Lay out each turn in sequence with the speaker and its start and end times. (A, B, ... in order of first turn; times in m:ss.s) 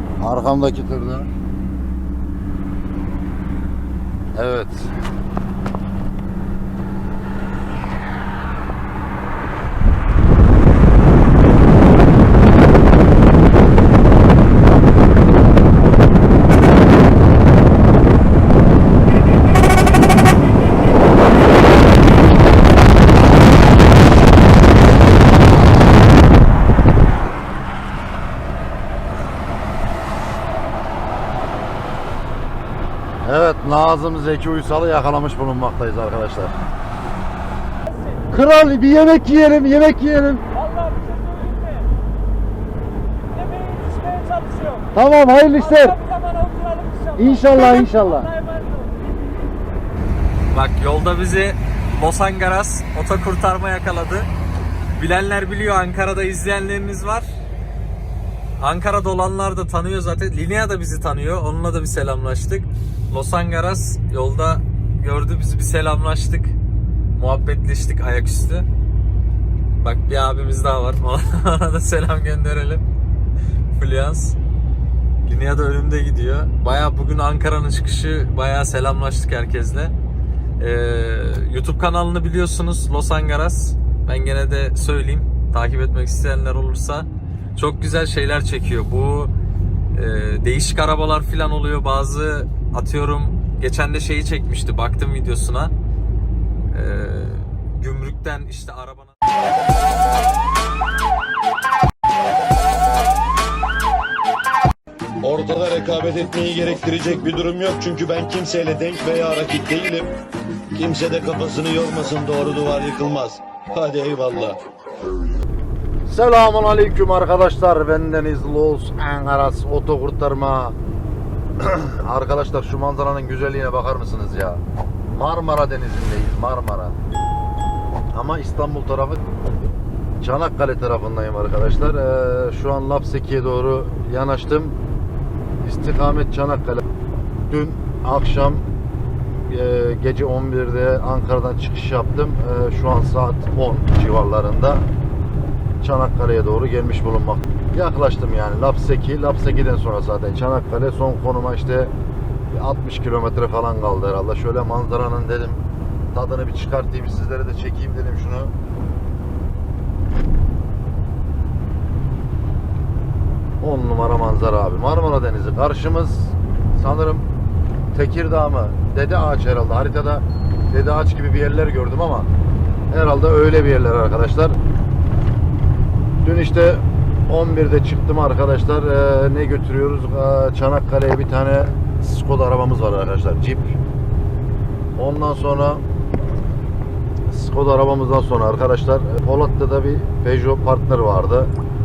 0:00.2-0:01.3 A
0:04.4-0:04.9 A
0:33.2-0:36.5 A
0:38.3-0:40.5 A
0:40.8-0:41.7 B
0:43.6-0:44.8 B
0:44.9-0:46.1 A
0:46.3-0:47.2 B
0:47.2-0:48.4 A
0:48.5-0:48.8 B
0:50.5-0:54.3 C
0:55.0-0:57.3 C
0:58.6-1:06.6 C
1:07.2-1:08.7 C
1:09.8-1:12.8 C
1:13.7-1:14.4 C
1:15.2-1:19.9 C
1:20.6-1:29.3 C
1:29.9-1:35.7 C
1:36.7-1:39.1 C
1:45.2-1:50.1 D
1:50.7-1:54.6 D
1:56.1-2:00.8 A
2:01.6-2:07.0 A
2:08.1-2:09.3 A
2:10.2-2:14.8 A
2:15.6-2:16.8 A
2:17.5-2:18.7 A
2:19.5-2:24.9 A
2:25.8-2:31.9 A
2:32.5-2:35.6 A
2:36.1-2:38.5 A
2:43.6-2:47.3 A
2:47.9-2:52.3 A
2:52.9-2:54.6 A
2:56.2-3:03.8 A
3:05.0-3:05.8 A
3:07.3-3:11.5 A